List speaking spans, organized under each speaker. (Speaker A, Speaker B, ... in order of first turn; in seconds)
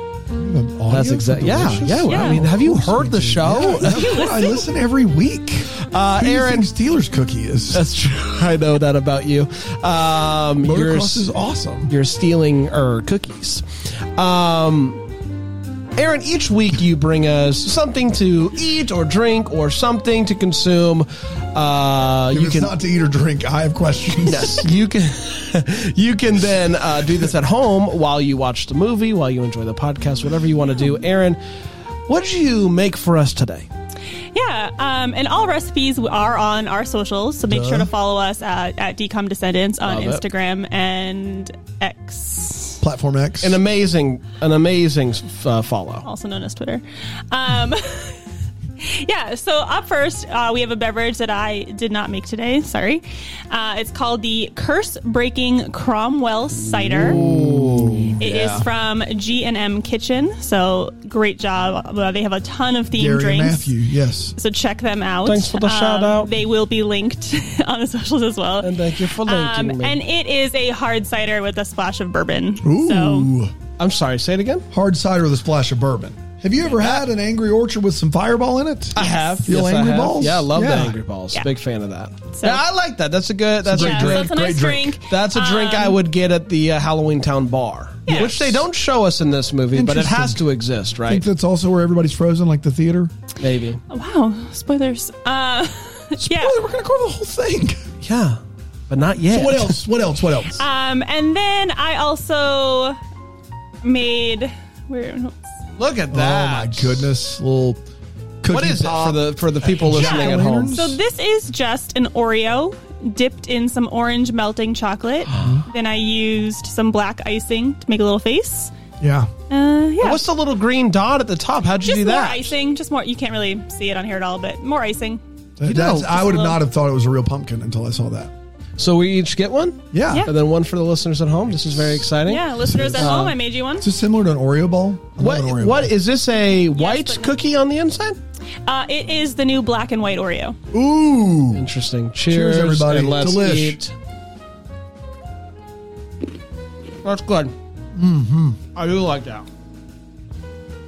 Speaker A: 0.3-7.8, 10.6-11.9, 22.3-24.6, 37.5-37.9, 42.8-43.6, 57.1-58.7, 62.9-64.3, 72.6-73.5, 74.7-81.0, 83.6-85.0, 88.1-88.6, 89.7-90.4, 91.1-93.1, 96.2-97.8, 99.3-100.6, 106.1-107.8, 108.4-111.0, 119.0-119.3, 125.6-128.3, 129.9-130.3, 132.6-135.9, 140.7-141.7, 142.3-143.8, 147.9-148.6
Speaker B: 0.9-4.1, 5.8-6.7, 7.7-11.2, 11.9-13.6, 14.2-15.0, 15.9-22.7, 24.2-31.4, 32.1-33.7, 39.8-40.2, 43.4-46.0, 57.1-58.2, 65.2-66.3, 68.6-70.0, 73.8-74.6, 78.9-84.4, 85.0-91.2, 93.4-93.8, 98.0-99.8, 105.8-107.1, 108.5-110.9, 120.0-122.5, 125.6-126.4, 128.8-132.4, 133.0-133.3, 135.2-138.2, 141.5-143.9, 147.0-147.5, 148.7-149.5
Speaker C: 2.1-2.4, 3.8-4.7, 34.3-42.8, 46.0-48.2, 48.8-57.2, 58.2-63.7, 64.4-73.3, 79.0-79.5, 82.3-82.6, 83.8-86.0, 88.1-88.3, 93.9-96.5, 100.6-103.0, 103.8-105.4, 109.9-118.7, 119.5-120.2, 121.8-125.2, 126.2-126.5, 132.2-133.8, 136.7-137.3, 138.6-140.6